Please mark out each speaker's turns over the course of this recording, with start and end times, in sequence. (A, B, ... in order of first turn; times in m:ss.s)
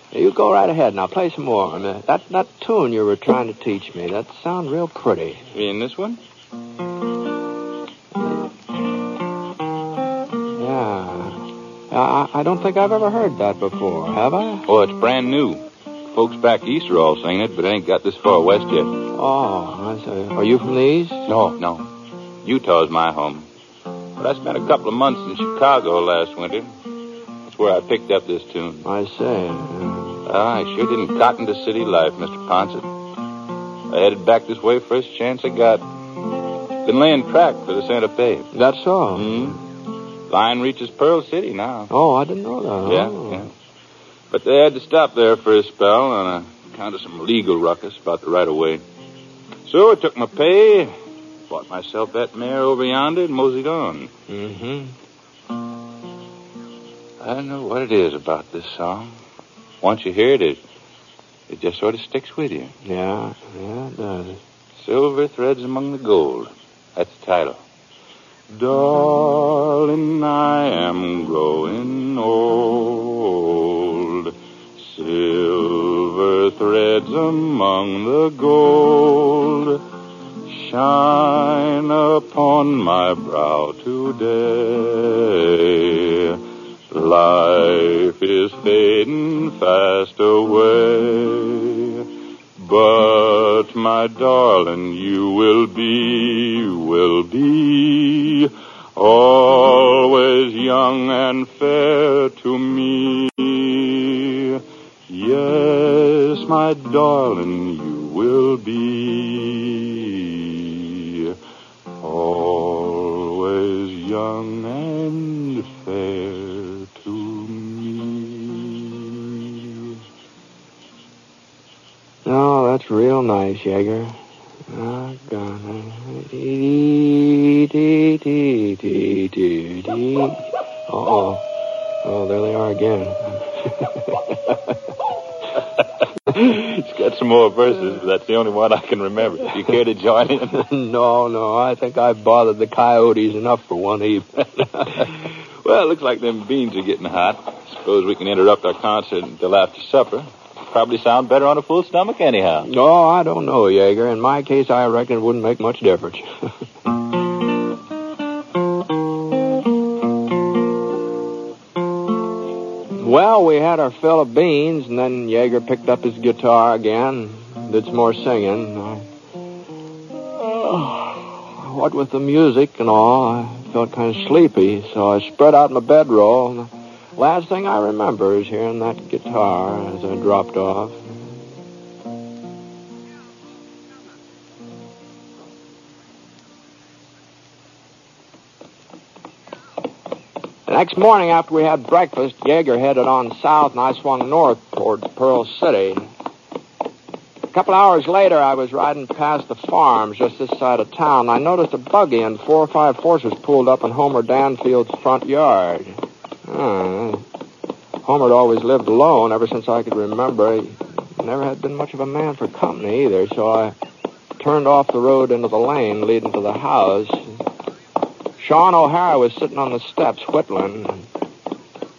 0:00.1-0:05.4 A
0:05.5-0:06.2 B
0:10.6-0:14.7 A
0:14.7-0:19.0 B
0:19.1-0:21.3 A
0:21.3-0:21.9 B
0:22.4-0:23.5 B
0:24.2-0:26.7 B
0:27.5-0:28.8 B
0:28.8-0:30.2 A
0:30.3-0:32.9 B
0:33.9-0:35.8 B
0:36.8-0:38.5 B
0:38.5-0:39.6 A
0:39.2-0:39.6 B
0:40.3-0:41.9 B
0:41.9-0:43.5 A
0:42.8-0:43.5 B
0:44.3-0:48.8 B
0:49.6-0:50.9 B
0:51.5-0:54.1 B
0:54.3-0:55.0 A
0:57.2-0:59.2 B
0:59.8-1:00.6 B
1:01.5-1:02.7 B
1:02.8-1:04.4 A
1:04.8-1:07.6 B
1:08.5-1:19.8 B
1:20.5-1:32.1 B
1:32.6-1:51.4 B
1:52.0-1:59.9 B
2:02.2-2:11.5 A
2:12.0-2:14.5 A
2:16.2-2:20.6 B
2:20.5-2:25.1 A
2:25.6-2:32.7 B
2:32.7-2:36.3 A
2:43.0-2:49.1 A
2:50.4-3:01.2 A
3:10.7-3:16.1 A
3:17.5-3:27.2 A
3:28.0-3:33.7 A
3:34.4-3:37.4 A
3:38.4-3:41.1 A